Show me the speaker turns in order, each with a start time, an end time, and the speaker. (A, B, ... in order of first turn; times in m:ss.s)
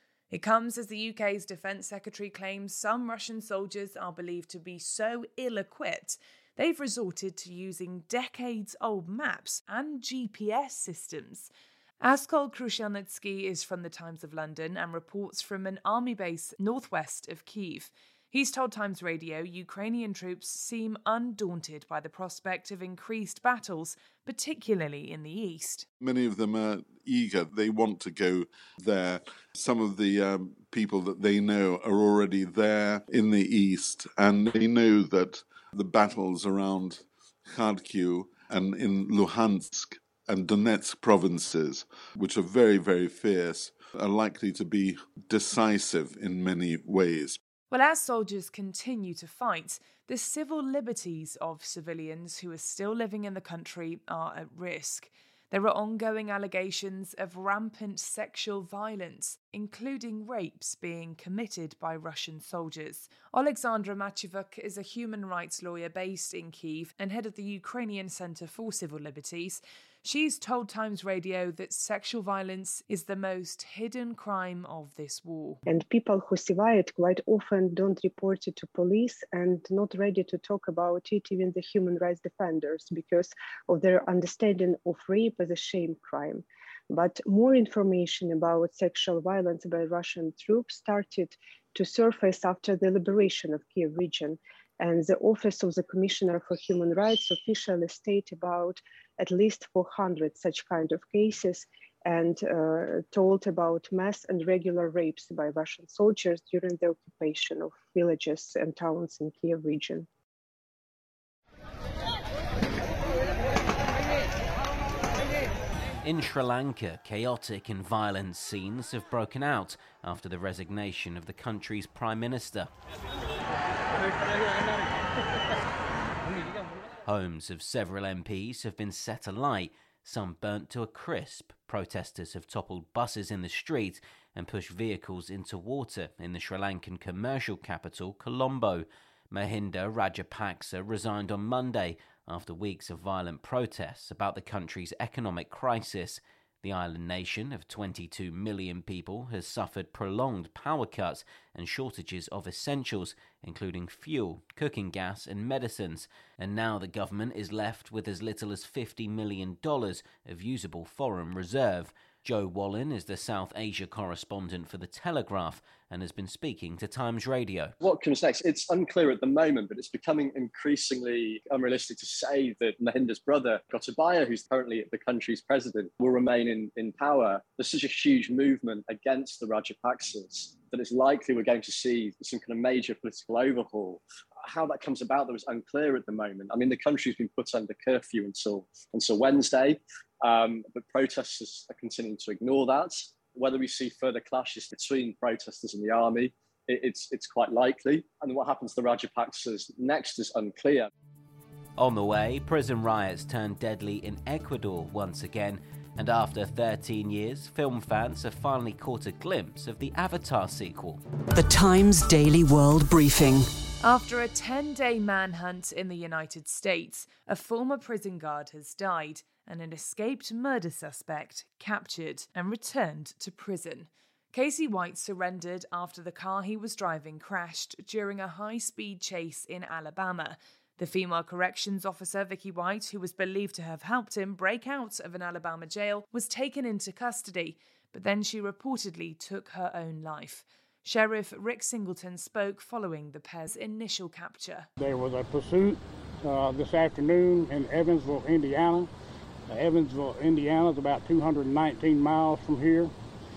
0:00.3-0:11.5 A
0:12.0-0:25.8 A
0:26.0-0:47.4 B
0:47.7-1:15.6 A
1:15.7-1:50.1 C
1:56.0-2:02.7 D
2:07.0-2:47.7 D
2:47.8-3:20.9 E
3:21.8-3:31.0 D
3:31.3-3:33.5 F
3:33.8-4:04.7 A
4:04.8-4:08.9 G
4:09.5-4:12.9 G